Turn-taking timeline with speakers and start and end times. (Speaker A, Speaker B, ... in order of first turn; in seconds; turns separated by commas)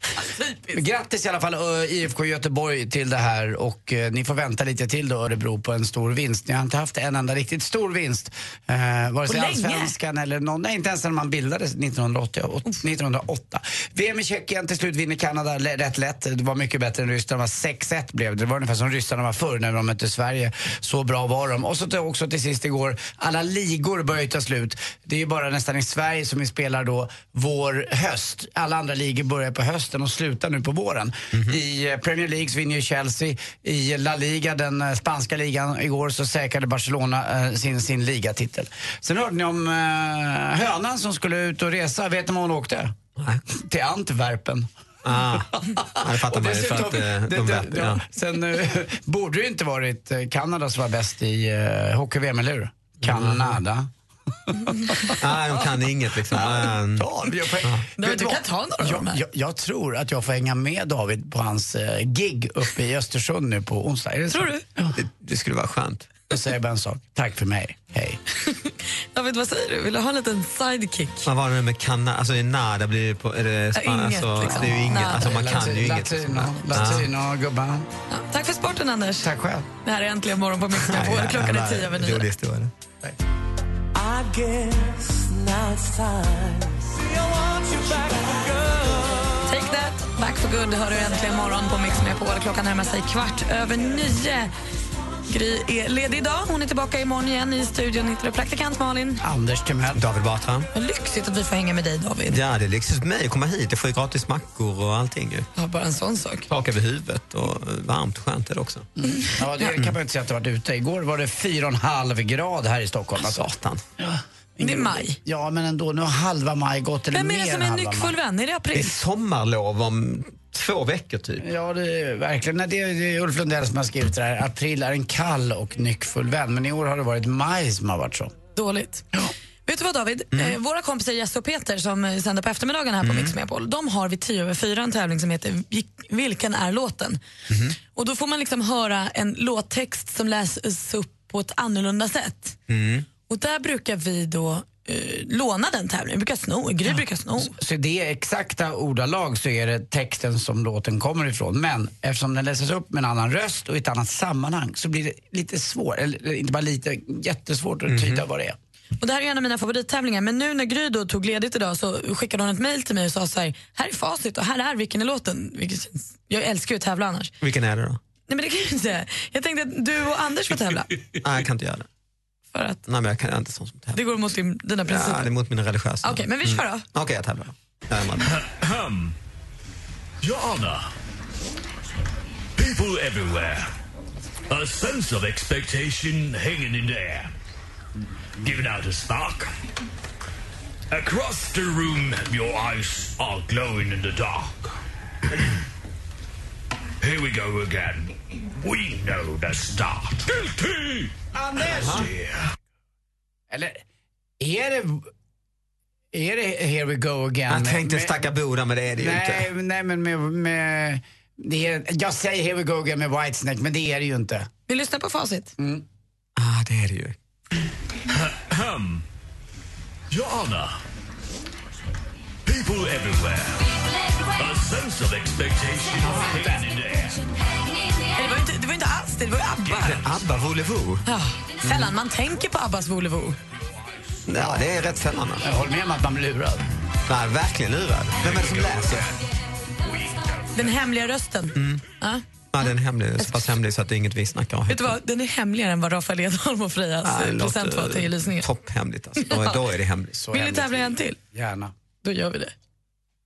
Speaker A: 0.2-0.8, Speaker B: 0.7-42.9, Speaker A: 9.3-9.9, Speaker C: 43.2-43.4, Speaker B: 43.5-44.7, Speaker C: 45.0-48.0, Speaker B: 45.6-53.9, Speaker C: 53.0-53.6, Speaker B: 54.5-55.1, Speaker C: 55.2-57.9, Speaker B: 56.3-65.0, Speaker A: 58.0-59.2, Speaker A: 64.3-64.6, Speaker C: 65.0-66.1, Speaker B: 66.3-68.2, Speaker A: 68.5-71.3, Speaker C: 71.3-77.1, Speaker A: 73.8-75.3, Speaker B: 74.4-77.9, Speaker A: 78.1-79.3, Speaker B: 79.2-79.7, Speaker A: 79.8-82.2, Speaker C: 80.7-82.7, Speaker D: 83.9-89.4, Speaker A: 89.5-94.5, Speaker A: 95.3-99.2, Speaker B: 99.2-100.0, Speaker C: 99.9-100.7, Speaker A: 100.7-102.4, Speaker C: 102.3-105.5, Speaker A: 105.6-106.5, Speaker C: 106.5-108.9, Speaker B: 109.0-118.1, Speaker A: 109.3-109.7, Speaker C: 113.2-113.8, Speaker A: 114.6-115.2, Speaker A: 117.1-119.0, Speaker C: 118.7-121.5, Speaker B: 121.4-128.3, Speaker A: 128.6-129.1, Speaker A: 129.7-137.2, Speaker C: 133.0-133.3, Speaker C: 137.5-137.8, Speaker A: 137.9-142.6, Speaker C: 142.7-143.1, Speaker A: 143.3-147.6, Speaker B: 146.9-158.6, Speaker C: 157.9-158.2, Speaker A: 159.0-167.3, Speaker C: 167.4-168.0, Speaker A: 168.3-170.9, Speaker C: 171.2-171.9, Speaker A: 172.5-172.8, Speaker C: 172.9-174.0, Speaker A: 173.9-175.3, Speaker C: 174.9-178.3, Speaker A: 176.0-176.8, Speaker E: 178.2-179.1, Speaker E: 180.2-180.9, Speaker E: 182.6-183.7, Speaker E: 184.5-187.3, Speaker E: 188.4-189.5, Speaker E: 190.9-194.8, Speaker E: 197.0-202.5, Speaker B: 201.3-202.1, Speaker C: 201.8-202.1, Speaker B: 203.5-203.8, Speaker B: 204.4-205.1, Speaker B: 206.1-208.3, Speaker C: 207.5-209.5, Speaker B: 209.0-214.5, Speaker A: 214.7-215.5, Speaker B: 215.6-215.8, Speaker C: 216.4-217.2, Speaker E: 218.1-219.0, Speaker E: 220.1-220.8, Speaker E: 222.4-227.2, Speaker A: 228.1-230.0, Speaker E: 229.7-230.1, Speaker C: 229.8-231.1, Speaker A: 231.1-233.4, Speaker C: 231.7-231.9, Speaker C: 234.3-235.4, Speaker B: 235.4-236.6, Speaker C: 237.1-239.1, Speaker E: 239.8-240.5, Speaker A: 240.6-242.2, Speaker C: 241.6-241.8, Speaker C: 242.5-245.0, Speaker A: 244.7-248.5, Speaker C: 247.1-250.2, Speaker A: 249.2-249.6, Speaker B: 250.1-251.7, Speaker A: 250.3-251.2, Speaker A: 252.0-252.5